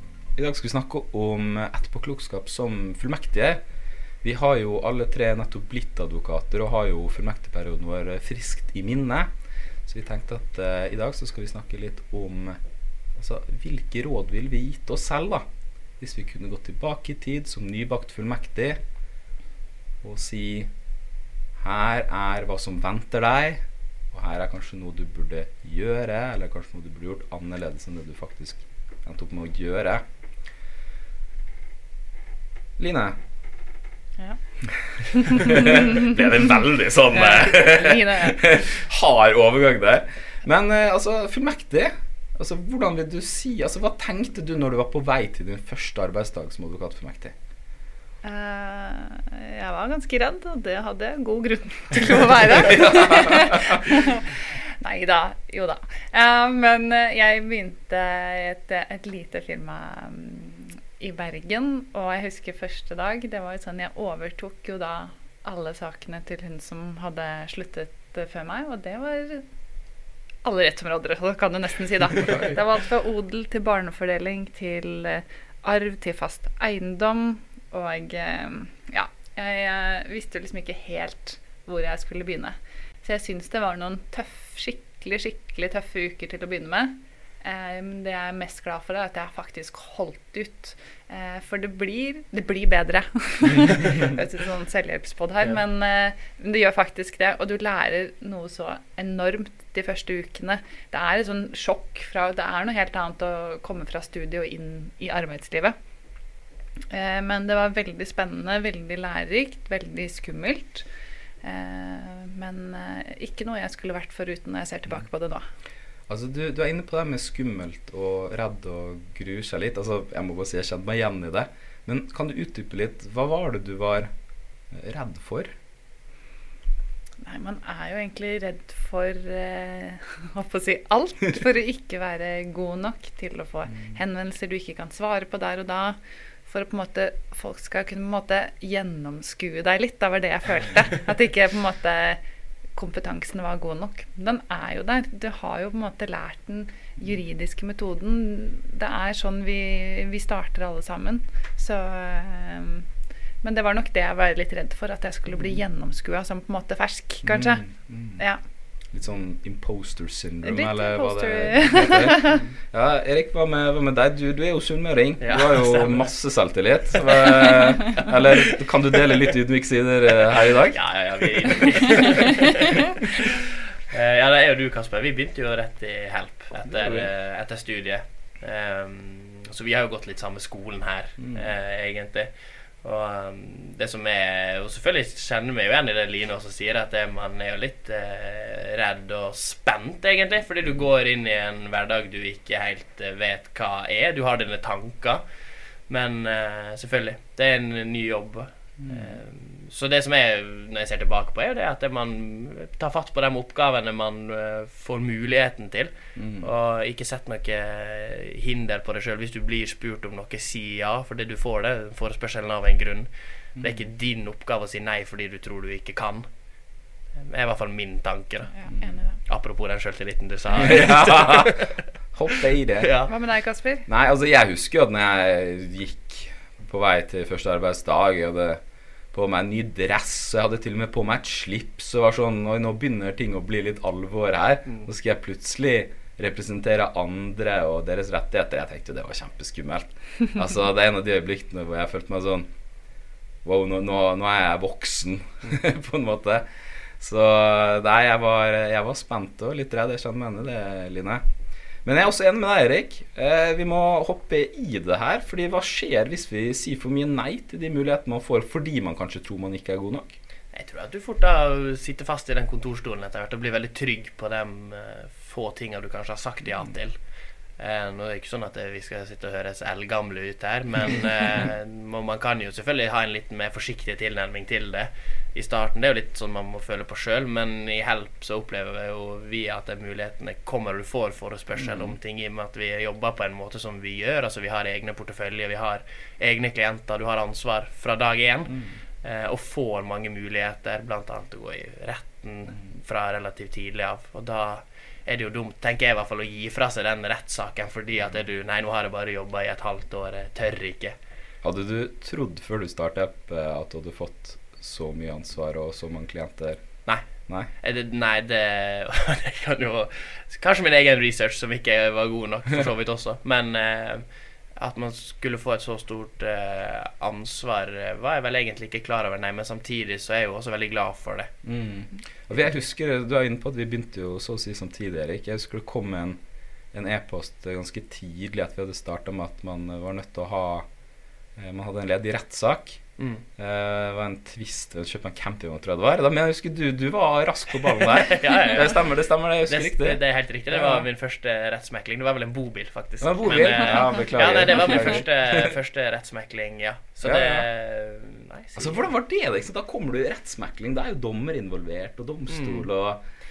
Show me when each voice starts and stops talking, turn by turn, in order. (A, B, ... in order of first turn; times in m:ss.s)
0:00.4-0:03.6 A
0:04.2-0:09.3 A
0:09.8-0:12.6 A
0:13.2-0:15.4 A
0:16.0-0:18.8 A
0:20.0-0:20.7 A
0:21.6-0:30.0 A
0:32.8-0:33.2 A
0:35.0-0:35.6 B
0:35.2-0:47.3 A
0:37.1-0:38.4 B
0:48.2-1:09.4 B
0:52.8-0:53.5 A
1:10.4-1:45.7 B
1:46.9-1:50.8 B
1:51.4-1:55.4 B
1:56.1-2:04.1 A
2:04.7-2:05.5 A
2:07.2-2:22.2 B
2:22.7-2:32.9 B
2:33.4-2:38.4 B
2:37.2-2:38.2 A
2:38.9-2:50.8 A
2:40.4-2:42.4 B
2:45.2-2:46.1 C
2:47.0-2:48.0 C
2:50.5-3:02.3 C
2:56.5-2:57.1 A
3:01.2-3:01.5 A
3:02.8-3:15.2 C
3:15.9-3:36.3 C
3:18.8-3:19.2 A
3:26.2-3:26.5 A
3:33.6-3:33.8 A
3:37.2-3:41.8 C
3:38.5-3:39.2 B
3:40.6-3:41.6 A
3:42.1-3:43.0 A
3:42.8-3:43.1 C
3:43.1-3:43.9 B
3:43.8-3:48.6 A
3:49.1-4:02.5 A
4:03.4-4:06.5 A
4:07.0-4:11.2 A
4:11.8-4:20.2 A
4:20.5-4:27.0 C
4:27.6-5:01.0 C
4:41.5-4:42.0 A
4:48.5-4:48.8 A
5:01.4-5:07.5 A
5:06.8-5:21.3 C
5:21.4-5:26.2 A
5:26.7-5:30.6 A
5:31.4-5:32.8 A
5:33.0-5:33.2 C
5:33.4-5:40.9 A
5:37.8-5:38.8 C
5:39.5-5:48.9 C
5:43.0-5:45.5 A
5:47.0-5:47.5 A
5:48.6-5:53.0 A
5:52.3-5:52.7 C